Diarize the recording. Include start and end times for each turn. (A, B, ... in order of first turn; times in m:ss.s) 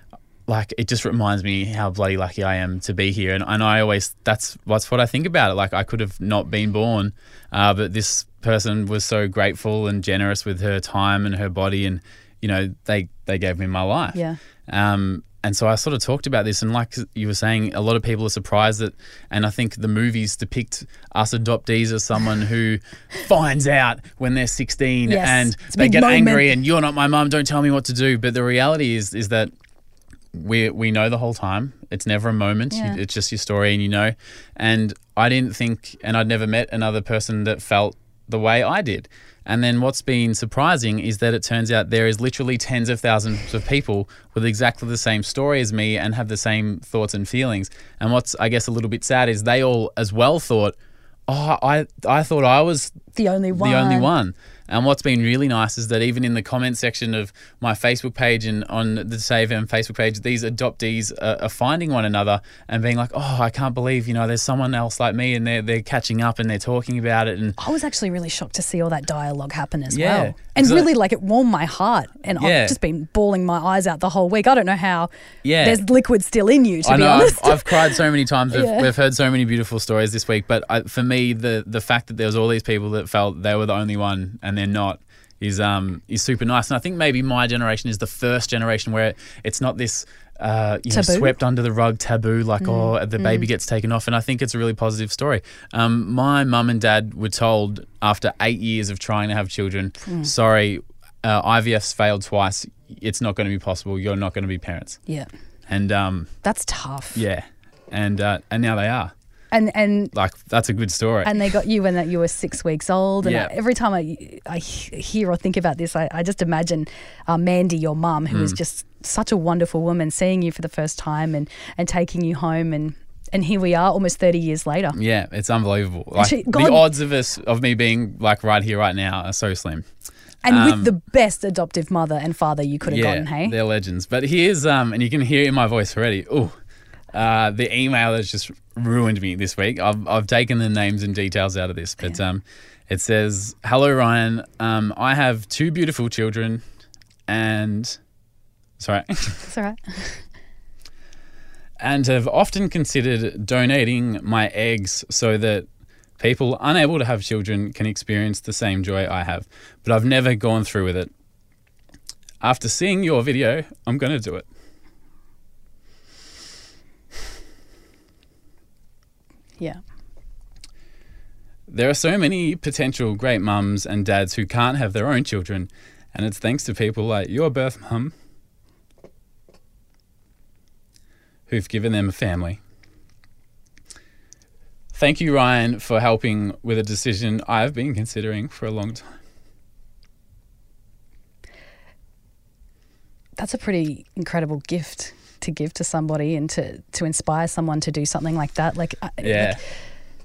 0:00.5-0:29.5 A
0:25.1-0:26.4 B
0:30.3-0:50.7 A
0:32.7-0:33.0 B
0:51.3-0:53.0 A
0:53.1-0:54.1 B
0:53.5-1:07.6 A
1:07.6-1:15.1 B
1:09.9-1:10.9 A
1:12.4-1:12.8 A
1:15.4-1:15.8 A
1:15.6-1:17.9 B
1:16.8-1:45.0 A
1:18.5-1:18.9 B
1:30.9-1:31.3 B
1:32.6-1:33.5 B
1:40.0-1:40.3 B
1:45.7-1:46.4 A
1:46.4-1:47.2 B
1:47.1-1:49.1 A
1:49.5-1:50.1 B
1:50.1-1:51.4 A
1:51.2-2:05.0 B
1:53.2-1:53.5 A
1:58.3-1:58.6 A
2:04.9-2:09.8 A
2:06.2-2:06.8 B
2:10.4-2:13.5 B
2:10.5-2:10.9 A
2:12.9-2:16.5 A
2:17.1-2:26.6 A
2:27.3-2:28.0 A
2:28.8-2:29.4 A
2:29.4-2:30.2 B
2:31.8-2:35.6 A
2:36.2-2:41.1 A
2:42.4-2:44.4 A
2:51.7-2:58.1 A
3:01.5-3:02.6 A
3:04.9-3:09.1 A
3:13.4-3:19.6 B
3:19.2-3:19.6 A